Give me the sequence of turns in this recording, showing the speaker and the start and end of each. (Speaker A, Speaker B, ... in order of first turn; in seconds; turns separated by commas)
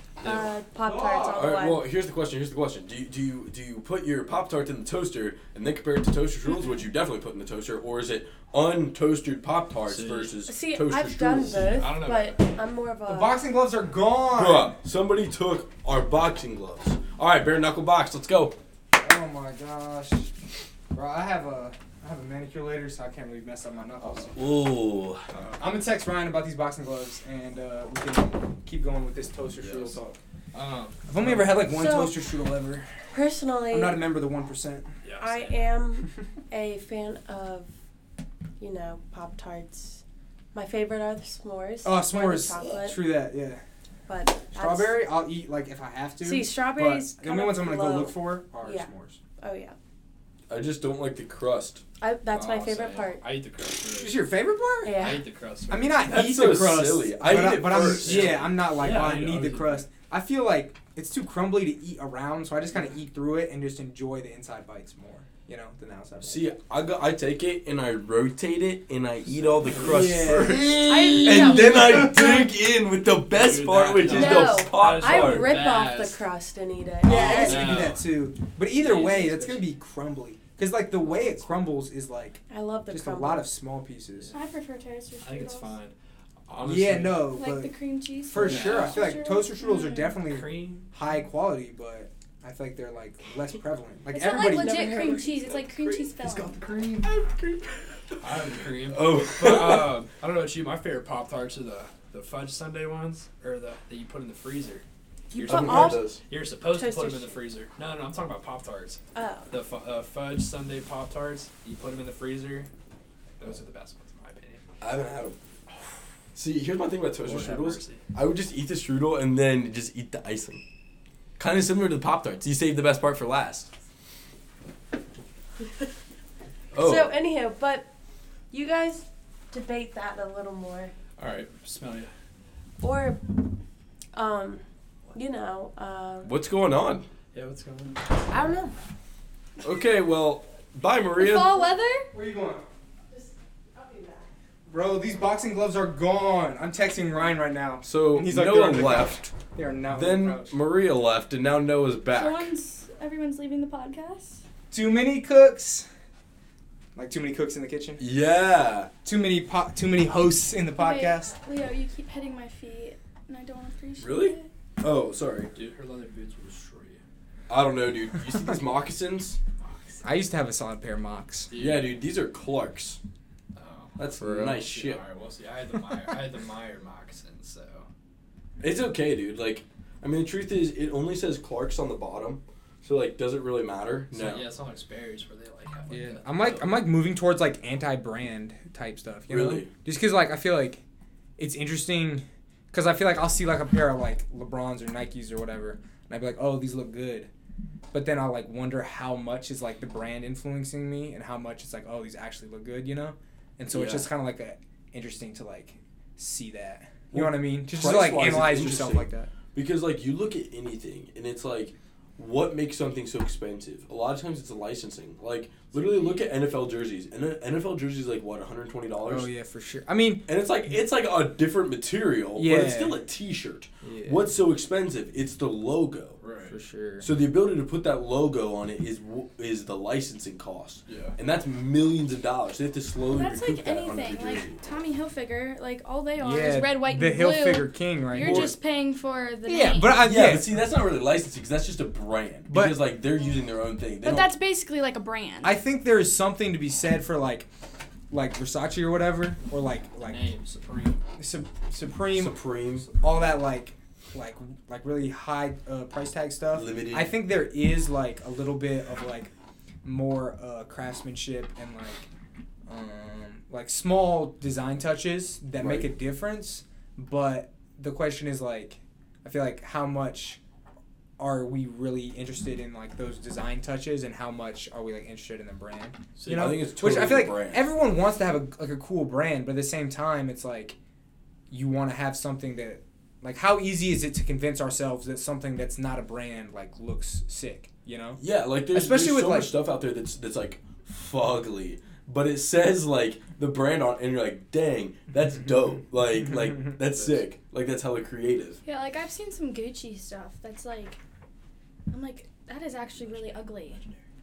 Speaker A: 0.2-11.9, Speaker B: 0.2-1.8, Speaker C: 9.8-10.3, Speaker B: 10.4-13.4, Speaker C: 11.6-12.4, Speaker D: 13.1-14.8, Speaker A: 14.3-18.6, Speaker D: 19.0-20.3, Speaker D: 20.9-24.6, Speaker A: 24.3-25.2, Speaker C: 25.3-25.6, Speaker D: 25.6-30.2, Speaker A: 29.6-30.0, Speaker C: 30.5-31.6, Speaker D: 31.1-32.9, Speaker B: 31.7-32.2, Speaker B: 33.1-34.0, Speaker D: 33.7-34.9, Speaker C: 35.0-35.7, Speaker B: 35.2-37.7, Speaker B: 38.6-40.0, Speaker B: 40.5-43.0, Speaker D: 41.8-43.6, Speaker B: 44.1-45.0, Speaker D: 44.5-49.2, Speaker B: 46.2-49.8, Speaker A: 50.5-51.8, Speaker B: 52.0-53.2, Speaker C: 52.3-54.2, Speaker D: 53.9-55.1, Speaker B: 54.8-55.2, Speaker C: 54.9-56.0, Speaker D: 55.7-66.5, Speaker A: 56.0-58.4, Speaker C: 57.7-59.8, Speaker A: 66.2-75.6, Speaker C: 69.2-70.3, Speaker D: 69.8-72.0, Speaker B: 70.9-72.4, Speaker C: 73.3-76.2, Speaker B: 74.0-77.9, Speaker D: 77.0-84.3, Speaker C: 77.0-78.1, Speaker C: 78.8-79.7, Speaker B: 82.5-83.5, Speaker E: 84.3-85.8, Speaker C: 85.2-85.9, Speaker C: 86.5-87.3, Speaker D: 86.6-95.0, Speaker E: 87.3-90.2, Speaker C: 88.3-89.2, Speaker C: 90.2-90.9, Speaker E: 94.1-96.5, Speaker B: 94.4-95.5, Speaker C: 96.2-97.1, Speaker A: 97.0-98.2, Speaker C: 98.2-112.7, Speaker A: 98.8-100.0, Speaker B: 105.3-106.1, Speaker A: 105.4-106.2, Speaker B: 106.7-107.4, Speaker B: 109.1-109.5, Speaker C: 113.4-114.6, Speaker A: 114.8-115.4, Speaker A: 116.3-120.6, Speaker C: 117.2-118.0, Speaker A: 121.4-123.7, Speaker A: 126.7-127.2, Speaker B: 126.8-127.9, Speaker B: 128.5-130.9, Speaker C: 131.2-132.1, Speaker B: 132.8-133.4, Speaker B: 134.1-136.3, Speaker A: 136.2-137.1, Speaker C: 137.3-138.0, Speaker B: 138.3-138.7, Speaker A: 139.6-141.7, Speaker E: 141.2-142.1, Speaker D: 142.1-142.7, Speaker B: 143.1-144.3, Speaker D: 144.7-150.5, Speaker A: 147.8-149.3, Speaker A: 149.9-152.5, Speaker E: 152.1-154.4, Speaker D: 154.7-155.9, Speaker D: 156.9-158.0, Speaker A: 158.0-158.9, Speaker D: 159.0-161.3, Speaker E: 160.8-164.5, Speaker A: 164.0-165.5, Speaker C: 165.5-167.0, Speaker A: 167.5-169.4, Speaker C: 169.6-170.0, Speaker D: 170.0-171.5, Speaker C: 171.5-171.9, Speaker A: 171.5-173.0, Speaker C: 173.5-177.9, Speaker A: 174.0-175.0, Speaker A: 178.6-184.4, Speaker C: 184.1-186.8, Speaker D: 185.9-190.8, Speaker A: 189.3-189.7, Speaker D: 191.4-197.3, Speaker D: 197.9-209.3, Speaker A: 203.7-204.1, Speaker A: 207.1-219.3, Speaker C: 215.7-216.2, Speaker D: 219.0-220.3, Speaker A: 220.3-226.2, Speaker D: 222.3-223.1, Speaker D: 223.8-224.3, Speaker C: 226.2-226.6, Speaker D: 226.5-227.1, Speaker A: 227.0-234.6, Speaker C: 230.9-231.2, Speaker E: 233.1-240.1, Speaker D: 236.2-238.6, Speaker A: 238.2-238.5, Speaker D: 239.4-240.6, Speaker A: 240.0-244.3, Speaker D: 242.5-242.8, Speaker E: 244.0-245.6, Speaker D: 245.4-247.5, Speaker D: 248.1-250.3, Speaker C: 250.0-251.0, Speaker D: 251.2-252.4, Speaker A: 252.1-252.9, Speaker D: 252.9-259.3, Speaker A: 256.5-257.2, Speaker D: 259.8-262.1, Speaker D: 262.7-270.4, Speaker A: 265.6-265.9, Speaker D: 271.2-280.8, Speaker A: 276.2-277.7, Speaker D: 281.5-289.6, Speaker A: 288.2-298.6, Speaker E: 298.6-301.0, Speaker E: 301.9-303.8, Speaker C: 303.0-304.0